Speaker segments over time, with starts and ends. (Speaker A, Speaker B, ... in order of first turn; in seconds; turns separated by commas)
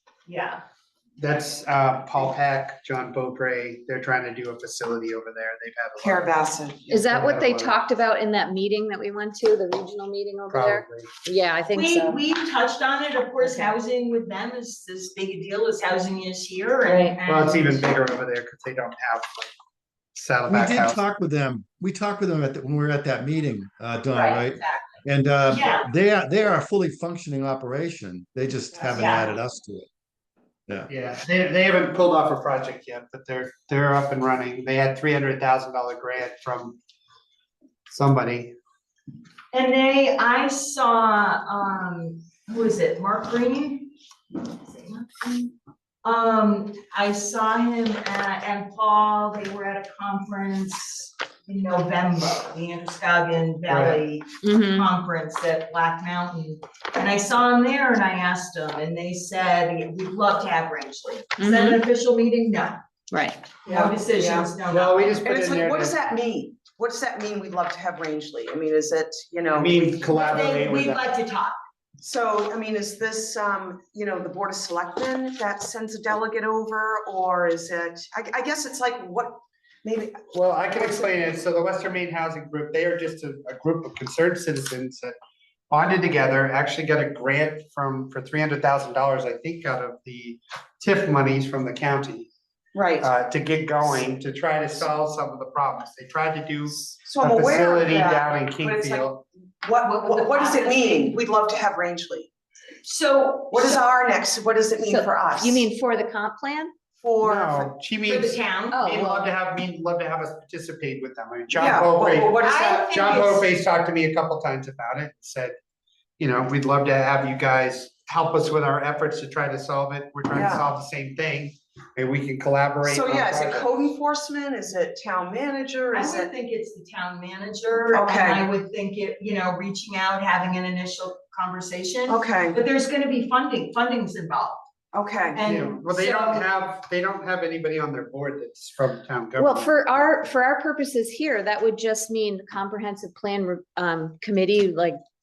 Speaker A: 0.2-0.6, Speaker B: 1.2-7.8, Speaker C: 6.0-6.8, Speaker D: 6.9-12.2, Speaker B: 10.5-11.1, Speaker A: 11.7-17.9, Speaker D: 13.4-13.7, Speaker D: 16.8-17.2, Speaker B: 17.2-19.5, Speaker B: 20.1-21.0, Speaker E: 20.5-29.9, Speaker A: 24.1-25.0, Speaker A: 25.5-25.9, Speaker A: 28.9-29.3, Speaker B: 30.9-36.8, Speaker B: 37.9-38.5, Speaker A: 39.5-43.9, Speaker A: 44.6-45.5, Speaker A: 46.0-62.8, Speaker B: 53.7-54.0, Speaker D: 54.4-54.9, Speaker D: 61.4-61.8, Speaker D: 63.1-63.4, Speaker C: 63.6-64.5, Speaker A: 63.6-65.1, Speaker B: 64.7-66.0, Speaker C: 65.2-69.9, Speaker B: 69.5-71.0, Speaker A: 70.0-71.5, Speaker C: 72.0-81.0, Speaker B: 80.3-85.2, Speaker B: 85.7-92.3, Speaker C: 92.7-93.1, Speaker B: 93.0-99.2, Speaker C: 97.0-99.1, Speaker C: 99.6-102.3, Speaker A: 99.8-101.2, Speaker A: 102.8-103.8, Speaker C: 103.5-105.7, Speaker D: 104.8-106.7, Speaker C: 107.0-107.7, Speaker B: 107.2-115.5, Speaker A: 108.0-108.8, Speaker D: 108.7-109.4, Speaker C: 111.5-112.8, Speaker A: 112.4-113.5, Speaker B: 116.2-123.8, Speaker C: 120.3-120.6, Speaker C: 122.8-126.3, Speaker A: 125.9-134.6, Speaker C: 127.9-128.4, Speaker C: 132.1-132.6, Speaker C: 134.9-135.4, Speaker A: 135.3-136.4, Speaker B: 135.4-139.7, Speaker D: 139.4-145.0